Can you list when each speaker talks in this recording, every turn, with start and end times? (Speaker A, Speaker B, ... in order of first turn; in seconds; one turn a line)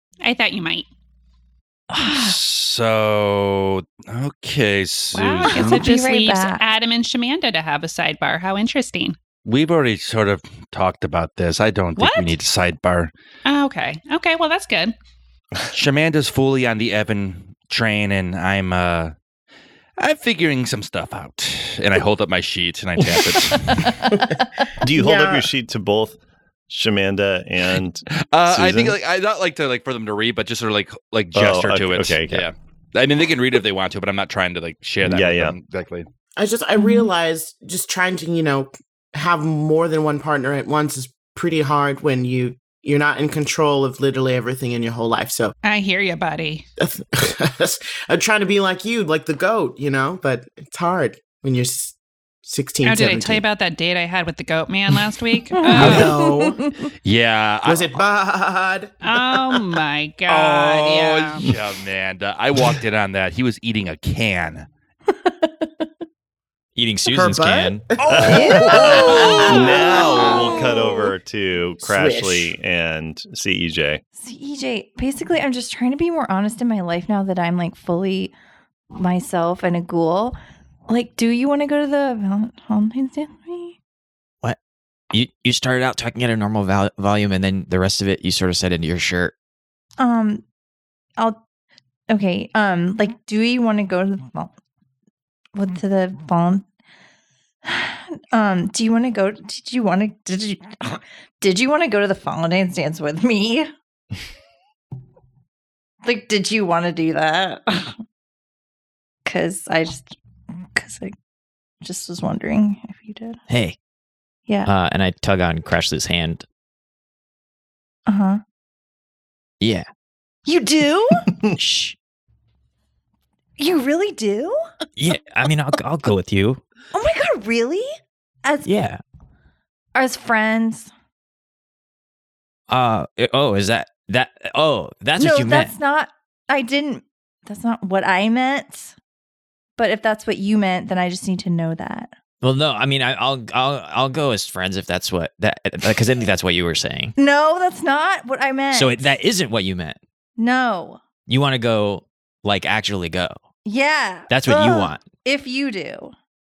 Speaker A: 0.2-0.9
Speaker B: 1.9-2.4
Speaker C: 2.0-5.8
Speaker A: 5.1-9.2
Speaker B: 5.5-6.6
Speaker C: 9.4-13.1
Speaker A: 11.9-12.3
Speaker A: 13.4-14.9
Speaker C: 15.7-19.1
Speaker C: 20.0-24.1
Speaker D: 24.1-24.4
Speaker E: 24.8-26.2
Speaker D: 24.9-25.5
Speaker E: 26.7-29.0
Speaker C: 28.3-36.0
Speaker E: 31.3-32.5
Speaker E: 35.0-35.5
Speaker D: 36.4-45.5
Speaker B: 36.8-37.1
Speaker A: 45.6-46.6
Speaker D: 46.8-53.4
Speaker A: 52.8-56.2
Speaker B: 55.5-56.8
Speaker D: 55.7-56.7
Speaker C: 57.0-58.0
Speaker D: 57.6-59.7
Speaker A: 59.0-61.5
Speaker C: 60.3-64.7
Speaker B: 65.2-65.8
Speaker F: 66.8-67.8
Speaker D: 67.1-70.7
Speaker E: 68.1-74.0
Speaker B: 68.3-70.6
Speaker D: 71.8-72.5
Speaker B: 74.2-78.3
Speaker B: 79.0-80.4
Speaker B: 80.9-83.8
Speaker F: 85.1-89.3
Speaker B: 90.0-90.4
Speaker B: 92.1-94.5
Speaker B: 95.5-96.6
Speaker B: 97.7-103.7
Speaker B: 106.0-108.0
Speaker B: 109.2-110.2
Speaker B: 110.7-111.1
Speaker B: 111.8-113.4
Speaker F: 113.5-113.8
Speaker F: 114.6-116.5
Speaker B: 118.1-118.4
Speaker F: 119.6-119.9
Speaker B: 120.5-121.3
Speaker F: 121.5-122.0
Speaker B: 123.6-124.6
Speaker F: 125.0-126.6
Speaker B: 126.9-127.9
Speaker F: 128.6-129.0
Speaker B: 129.9-130.9
Speaker F: 132.7-135.7
Speaker B: 135.2-138.9
Speaker B: 139.8-142.1
Speaker F: 142.4-147.1
Speaker B: 147.2-149.0
Speaker F: 148.7-150.0
Speaker B: 150.4-151.0
Speaker F: 151.3-153.4
Speaker B: 153.7-156.1
Speaker F: 154.3-155.1